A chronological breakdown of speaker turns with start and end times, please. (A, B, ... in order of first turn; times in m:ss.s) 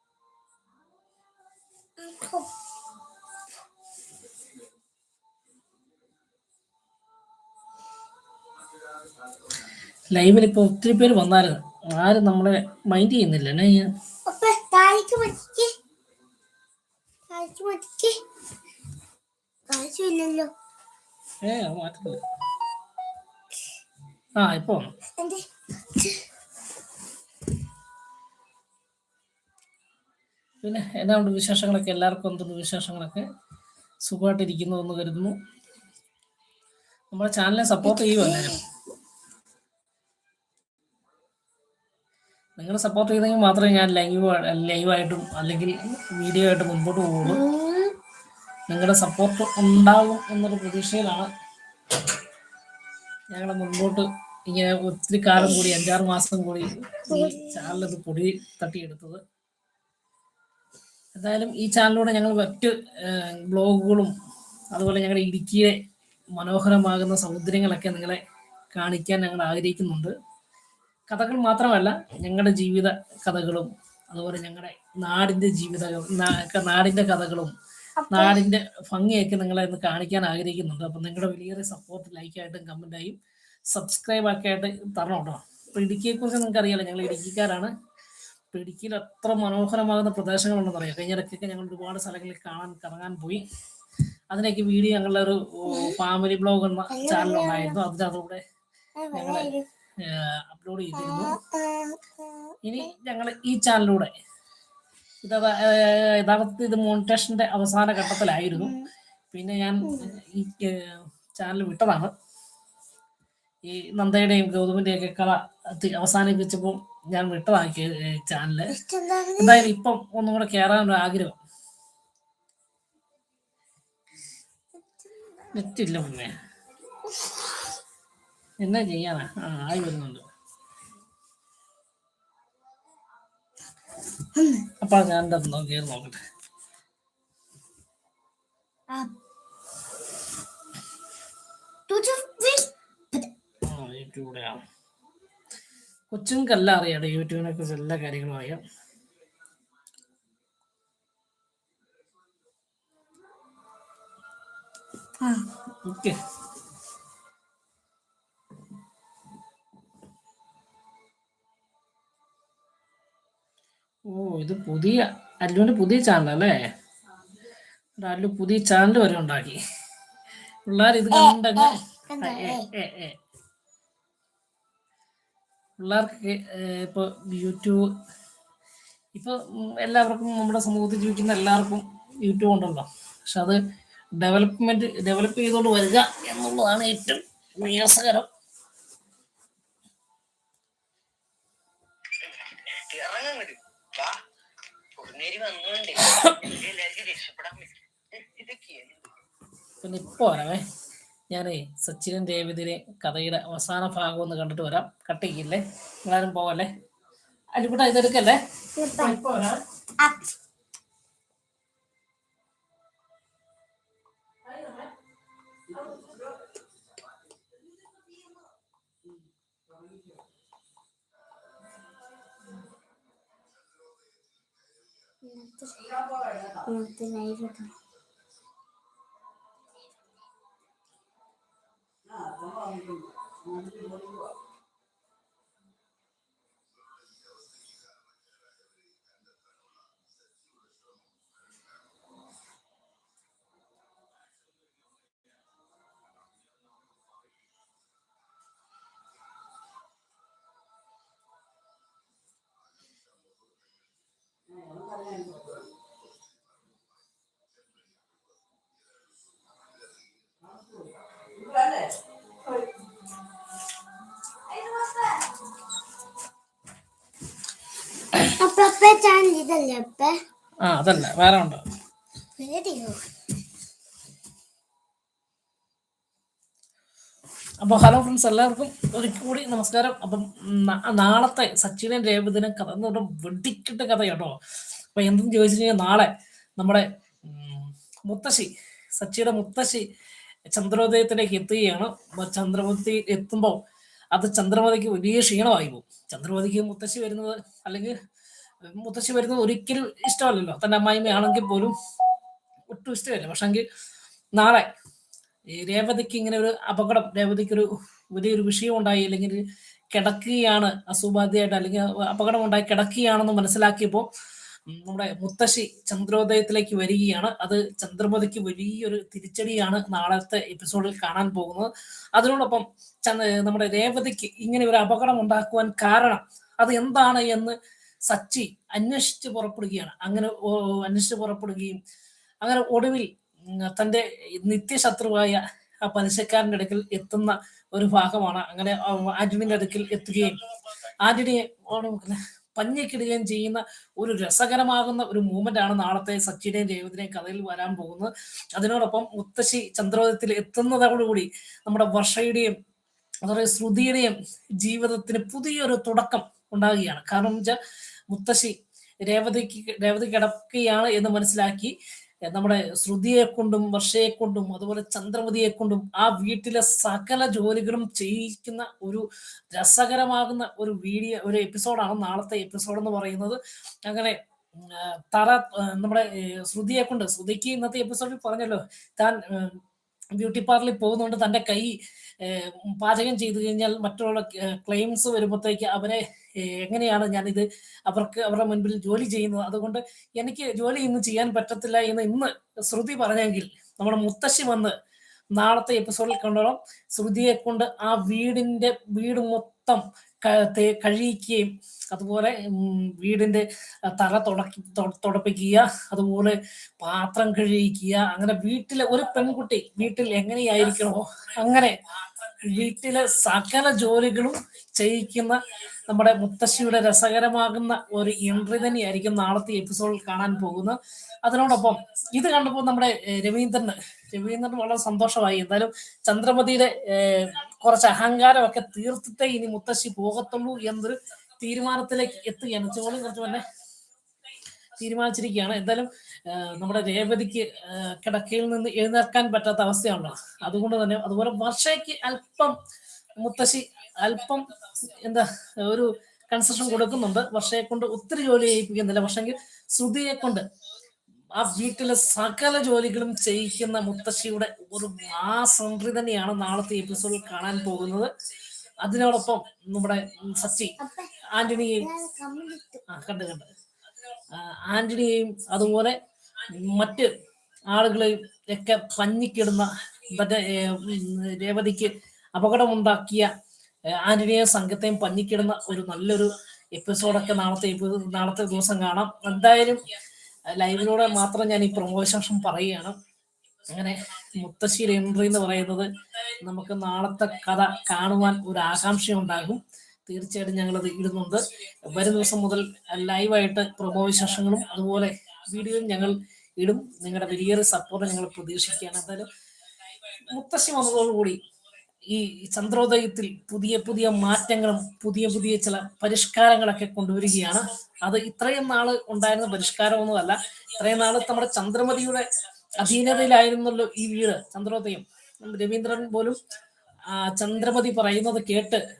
0:02.0-0:02.5 A
0:10.1-0:13.8 B
0:14.3-0:15.7 A
0:17.3-0:18.1 A
0:19.7-0:20.5 A
0:21.4-0:22.2 B
0:24.4-0:24.9 B
0:25.2-0:25.4 A
0:26.0-0:26.2 A
0:30.6-0:33.2 B
0:34.0-0:35.3 B
0:37.1-0:38.6 B
0:37.8-0:38.5 A
0:42.6-0:47.4 B
0:47.2-0:47.9 A
0:48.7-0:51.3 B
0:53.3-0:59.2 B
0:55.4-0:55.6 A
0:57.1-0:57.9 A
1:01.2-1:04.1 B
1:04.7-1:05.7 B
1:06.3-1:08.2 B
1:08.7-1:10.1 B
1:11.1-1:17.5 B
1:18.0-1:18.4 A
1:18.1-1:23.2 B
1:23.7-1:27.7 B
1:28.5-1:33.4 B
1:34.3-1:38.4 B
1:36.9-1:37.8 A
1:39.0-1:39.6 A
1:39.1-1:39.5 B
1:40.0-1:41.3 B
1:41.0-1:42.9 A
1:42.6-1:44.1 B
1:45.2-1:48.7 B
1:48.5-1:48.9 A
1:49.3-1:52.1 B
1:49.8-1:50.1 A
1:53.7-1:58.7 B
1:58.7-1:59.7 A
1:59.4-2:01.4 B
2:04.8-2:05.6 A
2:05.5-2:06.3 B
2:07.0-2:07.4 A
2:08.6-2:10.2 B
2:14.3-2:14.7 A
2:14.8-2:16.2 B
2:21.9-2:23.3 A
2:23.6-2:24.6 B
2:26.1-2:28.6 B
2:35.2-2:36.2 B
2:44.1-2:46.6 B
2:48.0-2:49.6 B
2:50.7-2:53.1 B
2:51.1-2:52.6 A
2:55.8-2:57.8 B
2:59.1-3:03.6 B
3:04.2-3:08.2 B
3:12.3-3:14.2 C
3:15.0-3:19.0 C
3:16.0-3:16.5 B
3:19.8-3:20.6 B
3:21.3-3:26.7 B
3:27.6-3:28.4 B
3:28.8-3:29.2 A
3:29.0-3:29.6 B
3:30.0-3:30.3 A
3:45.2-3:47.7 A
4:28.2-4:30.1 A
4:30.6-4:31.6 B
4:32.4-4:33.0 A
4:37.6-4:44.4 B
4:44.9-4:49.8 B
4:50.5-4:53.6 B
4:54.1-4:57.9 B
4:58.7-5:01.7 B
5:02.7-5:03.6 B
5:04.4-5:04.7 B
5:05.6-5:09.4 B
5:09.9-5:14.1 B
5:14.7-5:27.5 B
5:28.1-5:31.8 B
5:32.4-5:40.4 B
5:41.0-5:52.5 B
5:53.2-5:57.6 B
5:58.1-5:58.5 B
5:59.1-6:01.8 B
6:02.3-6:19.6 B
6:20.1-6:34.7 B
6:35.4-6:43.4 B
6:44.0-6:55.4 B
6:55.9-7:13.4 B
7:14.8-7:22.5 B
7:23.2-7:30.4 B
7:31.3-7:38.1 B
7:38.8-7:40.7 B
7:40.8-7:41.1 A
7:41.3-7:41.8 B
7:41.8-7:42.8 A
7:42.9-7:43.4 B
7:44.4-7:45.9 B
7:46.6-7:47.1 B
7:47.7-7:53.3 B
7:54.0-7:59.8 B
8:00.5-8:02.9 B
8:03.7-8:05.8 B
8:06.4-8:19.3 B
8:20.3-8:21.4 B
8:22.1-8:32.2 B
8:32.8-8:36.4 B
8:37.1-8:38.8 B